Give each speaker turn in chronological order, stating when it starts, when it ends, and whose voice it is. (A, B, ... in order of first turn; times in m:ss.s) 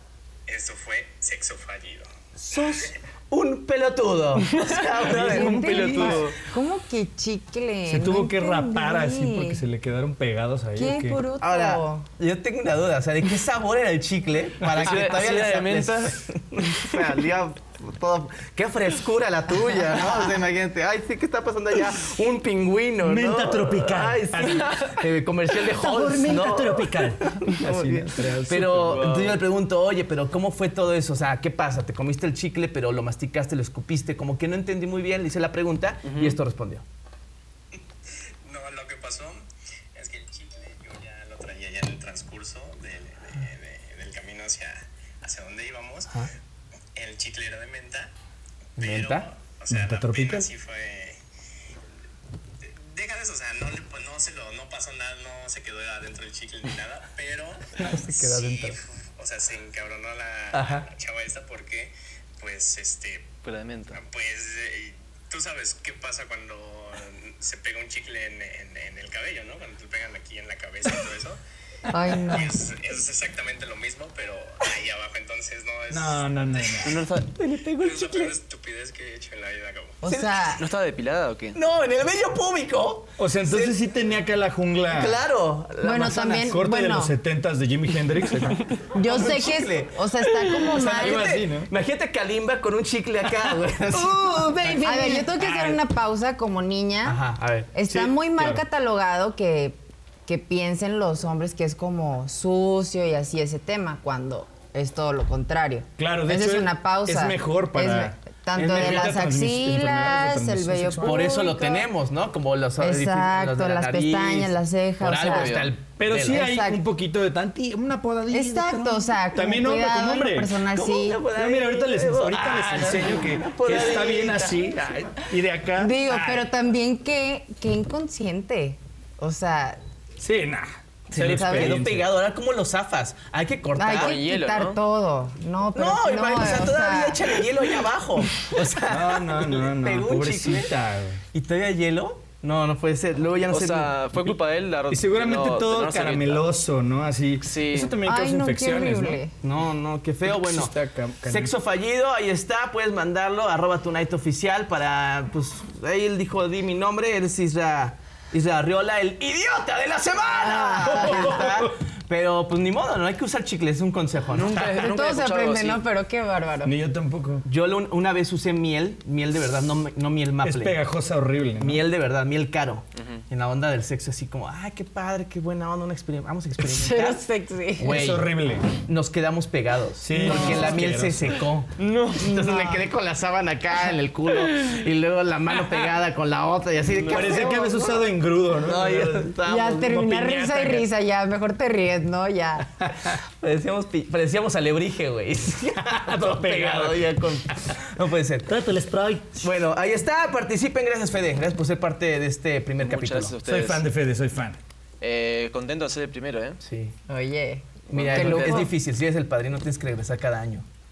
0:00.5-0:02.1 A
0:02.4-0:06.3 B
0:02.6-0:02.9 A
0:04.6-0:04.8 C
0:05.0-0:06.3 D
0:05.1-0:09.6 E
0:05.9-0:06.3 C
0:07.9-0:11.2 D
0:10.8-0:12.1 E
0:11.4-0:36.8 B
0:14.8-0:16.2 C
0:23.0-0:24.9 D
0:25.7-0:29.1 D
0:28.6-0:29.4 C
0:36.0-0:36.4 C
0:38.4-0:39.4 A
0:40.0-0:46.2 A
0:47.0-0:48.1 A
0:48.8-0:49.3 B
0:48.8-0:51.2 A
0:49.7-0:50.5 D
0:52.6-1:03.3 A
0:57.8-0:58.8 B
1:00.5-1:00.9 B
1:03.4-1:04.0 C
1:03.9-1:11.4 A
1:11.9-1:12.5 E
1:12.2-1:17.0 A
1:15.9-1:17.0 D
1:16.8-1:17.3 C
1:17.4-1:18.4 B
1:17.8-1:20.0 A
1:20.0-1:20.6 E
1:20.1-1:20.5 B
1:20.5-1:21.6 C
1:21.6-1:23.8 B
1:23.2-1:25.2 D
1:24.9-1:26.6 B
1:25.8-1:27.1 E
1:26.2-1:28.7 D
1:28.9-1:31.3 E
1:28.9-1:35.3 B
1:31.0-1:31.7 D
1:34.0-1:35.8 D
1:34.8-1:37.2 E
1:37.0-1:37.7 B
1:37.7-1:51.9 E
1:37.9-1:38.6 D
1:46.0-1:51.4 D
1:48.6-1:49.1 B
1:51.0-1:56.5 B
1:52.8-1:55.6 E
1:55.2-1:55.7 C
1:56.0-2:00.6 D
1:56.3-1:56.8 E
1:58.3-2:01.2 E
2:00.7-2:05.0 B
2:01.3-2:06.5 D
2:05.8-2:09.8 E
2:10.2-2:12.1 D
2:11.1-2:14.2 B
2:11.1-2:11.8 E
2:13.8-2:17.4 E
2:13.9-2:14.8 C
2:15.8-2:20.7 B
2:18.9-2:21.2 D
2:21.3-2:24.0 B
2:23.5-2:26.4 C
2:24.9-2:29.2 D
2:27.4-2:28.0 C
2:28.0-2:29.3 E
2:29.4-2:44.6 B
2:30.2-2:31.5 D
2:40.6-2:41.3 E
2:41.0-2:41.7 D
2:44.3-2:45.8 C
2:44.6-2:46.7 E
2:46.6-2:47.4 D
2:47.4-2:50.8 B
2:50.4-2:51.8 D
2:51.6-2:57.3 B
2:56.6-2:58.0 E
2:57.8-3:07.9 B
2:57.8-2:58.7 D
3:00.0-3:01.4 D
3:00.2-3:00.7 E
3:01.8-3:02.3 C
3:02.2-3:02.9 E
3:07.0-3:09.4 D
3:07.1-3:08.0 E
3:08.6-3:10.7 B
3:09.4-3:12.9 E
3:09.9-3:10.8 D
3:12.8-3:13.1 D
3:13.4-3:18.5 B
3:15.9-3:17.1 D
3:18.5-3:19.4 D
3:19.4-3:23.4 B
3:22.8-3:23.8 C
3:23.4-3:24.6 D
3:25.0-3:26.6 C
3:26.6-3:26.9 B
3:27.1-3:28.7 E
3:27.9-3:28.7 C
3:27.9-3:30.6 B